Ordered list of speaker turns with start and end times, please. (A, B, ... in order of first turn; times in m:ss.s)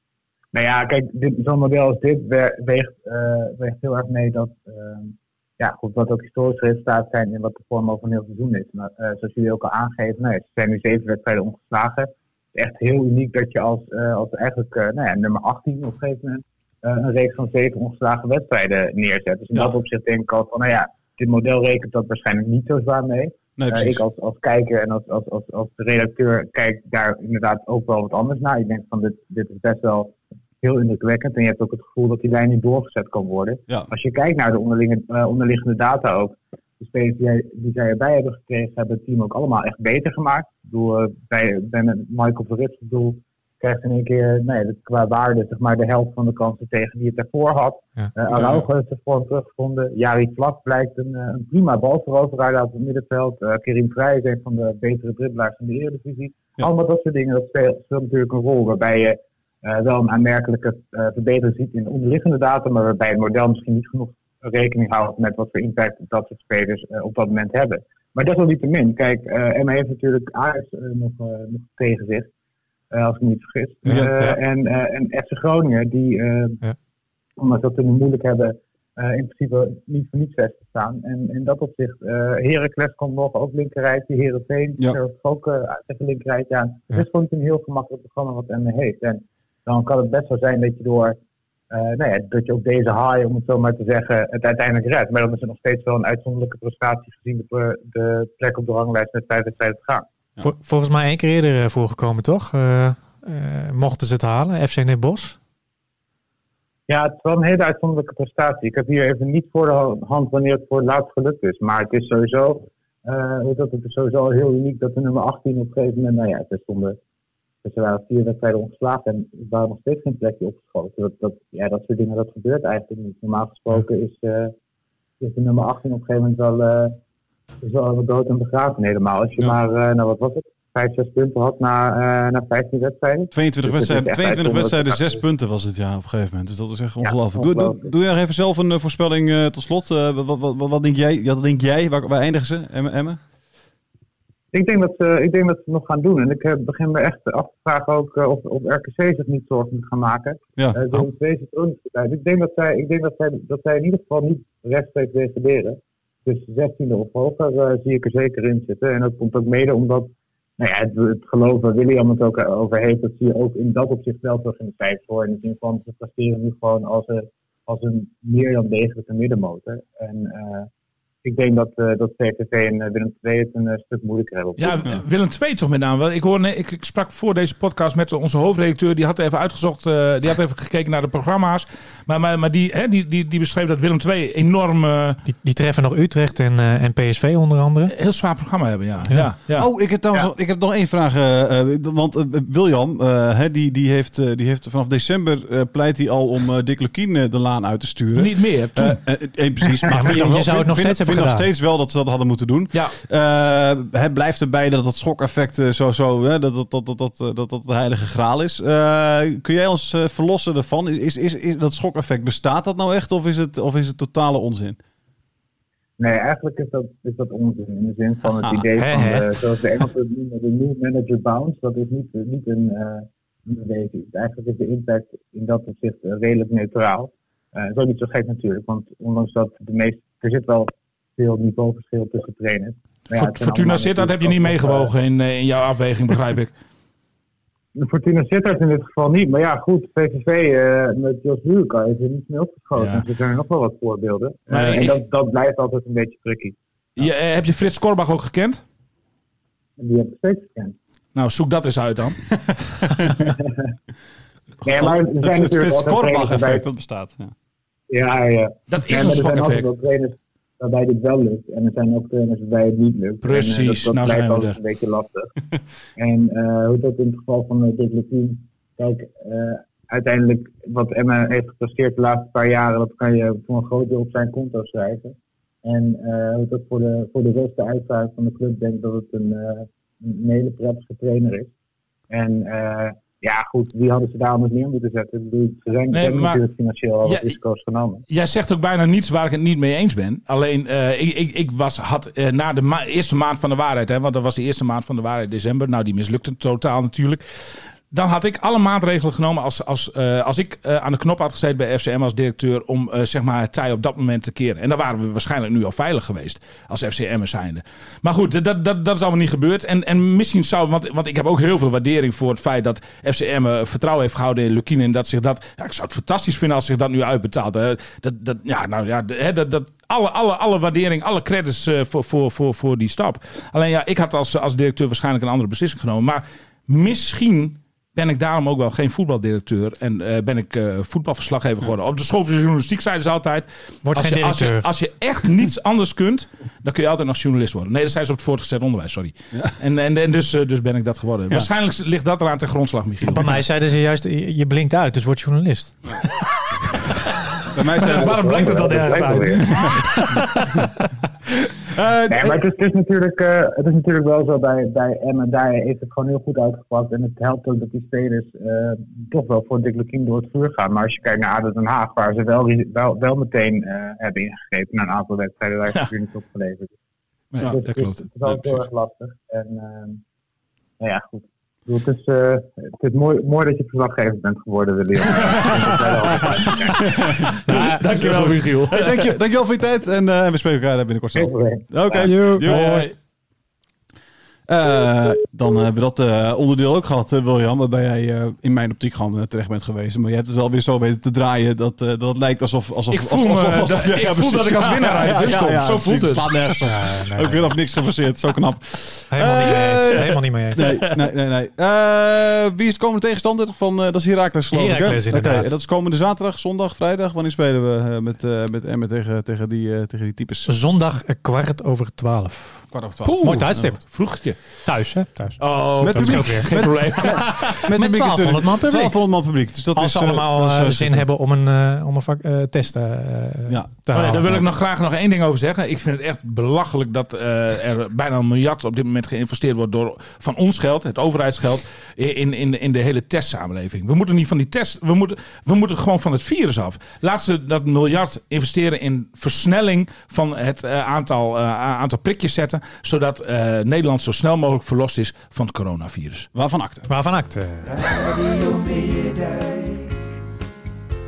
0:00.5-1:12.3 A
0:23.6-0:24.0 B
0:48.3-0:48.7 C
1:12.9-1:16.6 A
1:13.8-1:14.4 D
1:13.8-1:14.1 B
1:17.4-1:31.2 A
1:31.7-1:40.0 A
1:40.4-1:45.4 D
1:46.9-1:57.0 A
1:57.6-2:04.5 A
2:05.2-2:07.0 A
2:07.6-2:15.2 A
2:13.3-2:23.2 B
2:17.0-2:17.9 A
2:24.5-2:50.7 A
2:30.6-2:31.0 B
2:51.2-2:54.9 A
2:54.6-3:05.2 C
3:05.2-3:07.9 D
3:07.9-3:10.2 C
3:09.1-3:34.8 B
3:18.1-3:19.0 C
3:19.9-3:21.5 D
3:36.0-3:54.9 A
3:38.2-3:38.7 B
3:38.8-3:39.3 D
3:53.1-3:56.5 C
3:57.7-4:06.6 A
4:02.8-4:03.0 C
4:04.5-4:05.0 C
4:07.0-4:08.6 C
4:09.8-4:10.7 A
4:11.1-4:12.3 C
4:12.4-4:13.3 B
4:13.3-4:13.6 A
4:14.6-4:16.6 A
4:14.7-4:17.3 B
4:17.9-4:25.3 A
4:18.7-4:19.7 C
4:23.2-4:24.6 C
4:26.0-4:41.5 A
4:42.1-4:48.0 A
4:45.9-4:46.4 C
4:47.0-4:47.4 C
4:48.1-5:43.3 C
5:33.8-5:34.6 D
5:43.1-5:45.8 D
5:47.5-5:48.2 B
5:47.6-5:50.7 C
5:47.8-5:49.6 A
5:51.7-5:52.4 B
5:52.1-6:06.7 A
6:07.3-6:08.0 C
6:07.4-6:10.0 A
6:08.2-6:08.6 B
6:10.8-6:17.1 A
6:15.2-6:22.8 B
6:17.4-6:17.8 D
6:17.5-6:19.1 C
6:21.2-6:22.1 A
6:22.0-6:22.9 D
6:22.4-6:22.9 C
6:24.5-6:50.5 B
6:32.9-6:36.3 C
6:36.7-6:37.5 D
6:39.1-6:40.6 D
6:39.9-6:40.9 C
6:44.5-6:45.5 D
6:50.4-6:59.0 D
6:52.7-6:53.8 B
6:53.2-6:54.6 C
6:55.4-6:57.7 C
6:55.8-7:01.1 B
6:59.7-7:04.4 D
7:03.9-7:26.3 C
7:26.3-7:26.9 B
7:26.9-7:27.7 D
7:27.6-7:29.9 E